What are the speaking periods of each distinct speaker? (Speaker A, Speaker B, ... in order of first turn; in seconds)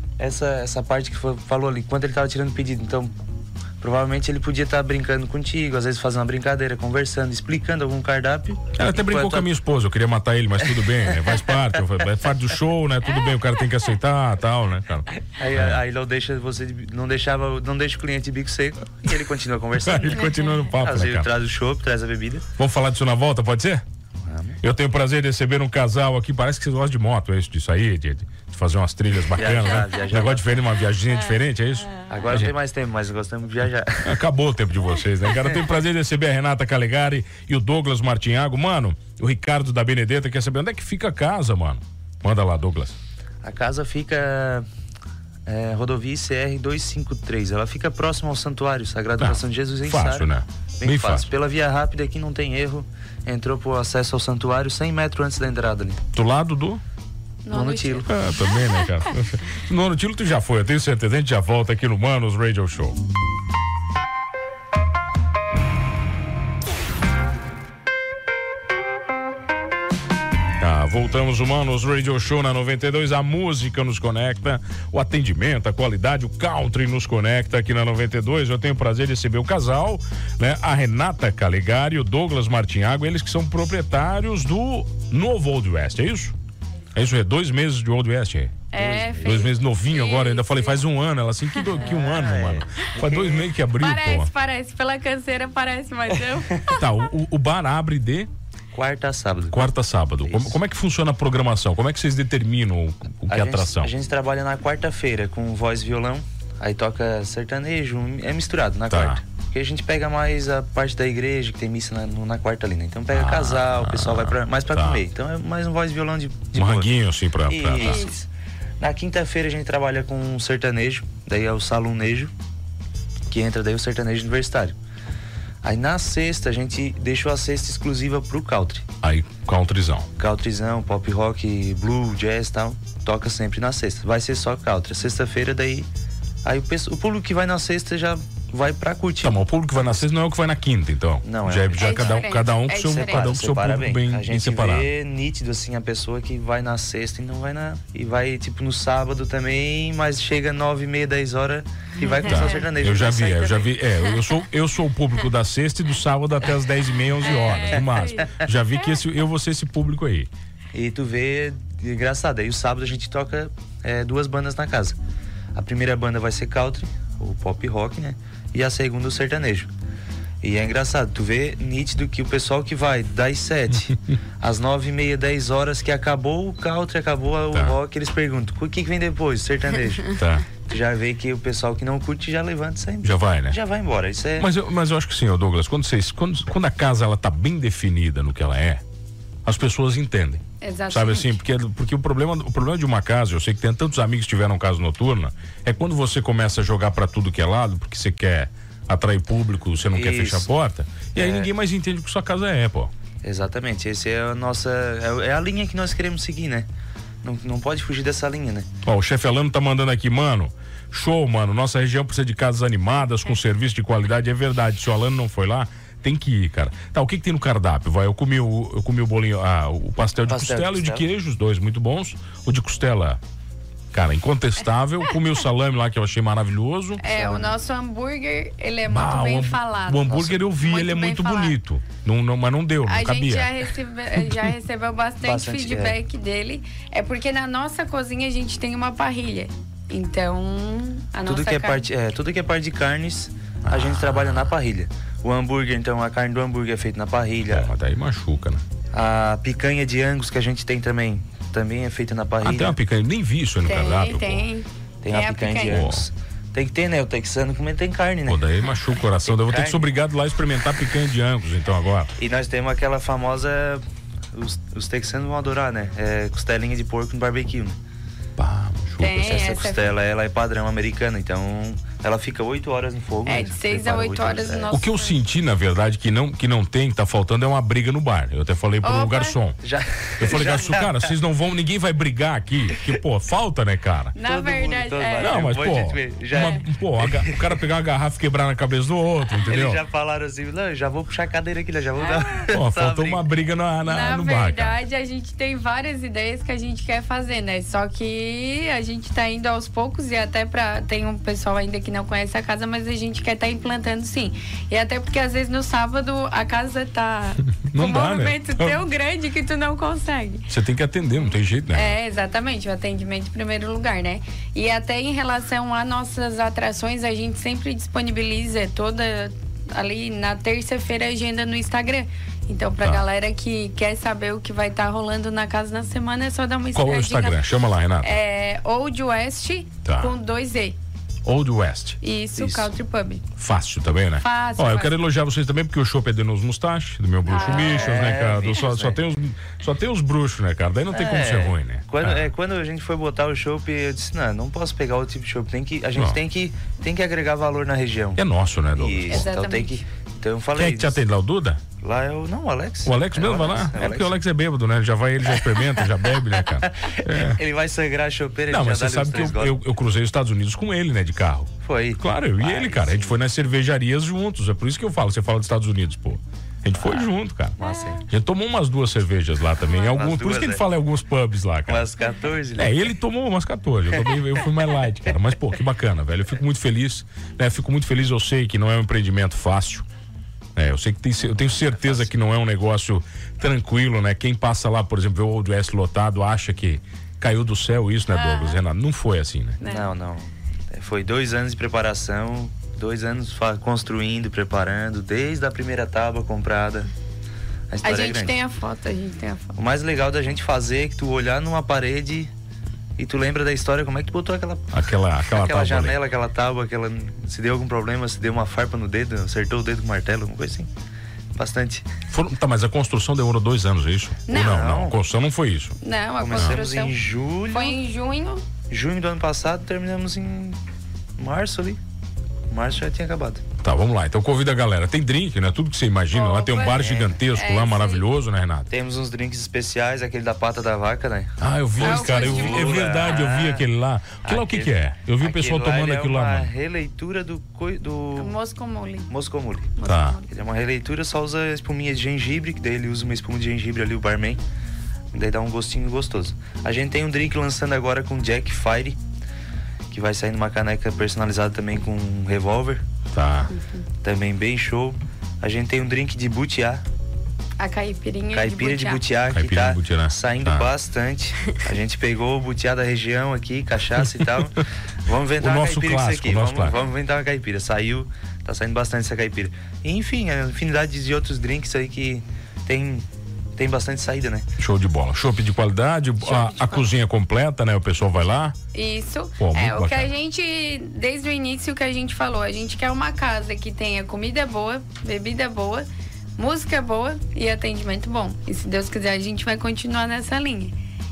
Speaker A: 0.2-3.1, 3.8-9.5, 10.6-11.8, 15.3-22.5, 24.2-24.6, 29.3-30.6, 32.1-34.2, 43.4-44.7, 45.5-50.3, 50.8-56.0, 57.5-58.1, 88.8-89.3, 91.7-93.5, 98.7-99.7, 100.2-100.6, 103.3-116.9, 117.5-118.3, 118.8-122.3, 123.3-124.8, 125.6-128.9, 130.2-135.9, 136.4-140.0, 141.2-153.8, 160.7-165.0, 165.6-169.7, 170.4-184.5, 199.9-200.5, 201.2-201.5, 203.2-206.7, 207.2-208.7, 220.3-221.0, 227.1-227.6, 235.2-236.0, 241.2-247.7, 248.9-252.8, 255.0-258.4, 259.2-259.9, 262.2-267.8, 269.1-274.8, 279.6-281.1, 284.3-287.6, 289.4-293.3, 337.5-339.0, 340.9-348.2, 348.7-351.0, 351.8-354.1, 355.3-355.7, 356.3-359.6, 361.6-363.2, 366.8-368.1, 369.8-370.6, 371.7-372.9, 373.9-374.2, 381.3-382.1, 389.6-396.9, 397.7-398.4, 399.6-402.3, 403.0-410.7, 411.4-411.9, 414.3-415.0, 416.2-417.8, 418.7-420.6, 421.2-421.8, 422.5-423.4, 426.8-427.1, 428.7-433.7, 434.2-438.4, 439.1-444.4, 445.1-449.0, 449.9-452.8, 454.0-456.8, 458.3-474.5
Speaker B: 8.8-15.8, 19.8-21.3, 22.6-23.8, 24.6-32.5, 34.0-43.0, 49.2-51.3, 56.1-56.8, 58.1-63.0, 70.6-86.3, 87.0-88.6, 89.2-94.3, 96.7-98.3, 99.5-103.9, 108.9-109.2, 113.1-115.0, 116.5-118.1, 129.0-130.1, 139.2-144.9, 152.2-160.3, 180.1-180.5, 183.0-183.6, 184.4-188.8, 189.4-202.9, 208.8-223.2, 223.9-227.0, 228.9-233.5, 234.2-234.5, 243.7-244.5, 247.5-248.6, 252.4-254.4, 255.6-256.0, 258.3-262.1, 268.4-269.4, 274.7-279.6, 280.2-284.1, 285.2-289.8, 292.5-294.8, 307.7-308.8, 310.5-312.0, 326.7-328.1, 329.9-330.1, 331.2-332.7, 333.4-342.3, 348.2-349.3, 350.6-351.6, 352.9-357.4, 358.5-367.6, 368.1-371.9, 372.6-379.9, 380.6-389.6, 404.7-406.0, 412.1-415.8, 423.6-428.7, 431.4-436.5, 439.9-440.2, 453.1-453.5, 459.3-460.7, 465.4-466.8, 474.6-478.6, 479.4-480.1
Speaker C: 57.5-58.7, 88.7-90.8, 93.8-97.0, 117.8-118.1, 141.7-143.3, 152.0-152.7, 157.2-158.3, 190.6-191.3, 227.0-231.6, 232.9-241.8, 253.7-255.9, 269.0-269.9, 273.3-275.2, 278.8-279.4, 284.1-285.5, 286.3-286.6, 292.0-292.3, 293.9-310.5, 311.3-327.4, 328.0-330.8, 332.0-333.3, 334.2-335.0, 337.3-338.2, 349.1-349.8, 388.1-388.6, 389.6-389.9, 397.8-399.5, 414.3-414.7, 415.8-417.0, 417.5-418.4, 426.1-428.0, 431.8-432.9, 438.2-439.1, 439.8-440.3, 453.5-453.8, 457.6-459.0, 476.2-476.9, 478.7-485.9, 486.4-490.7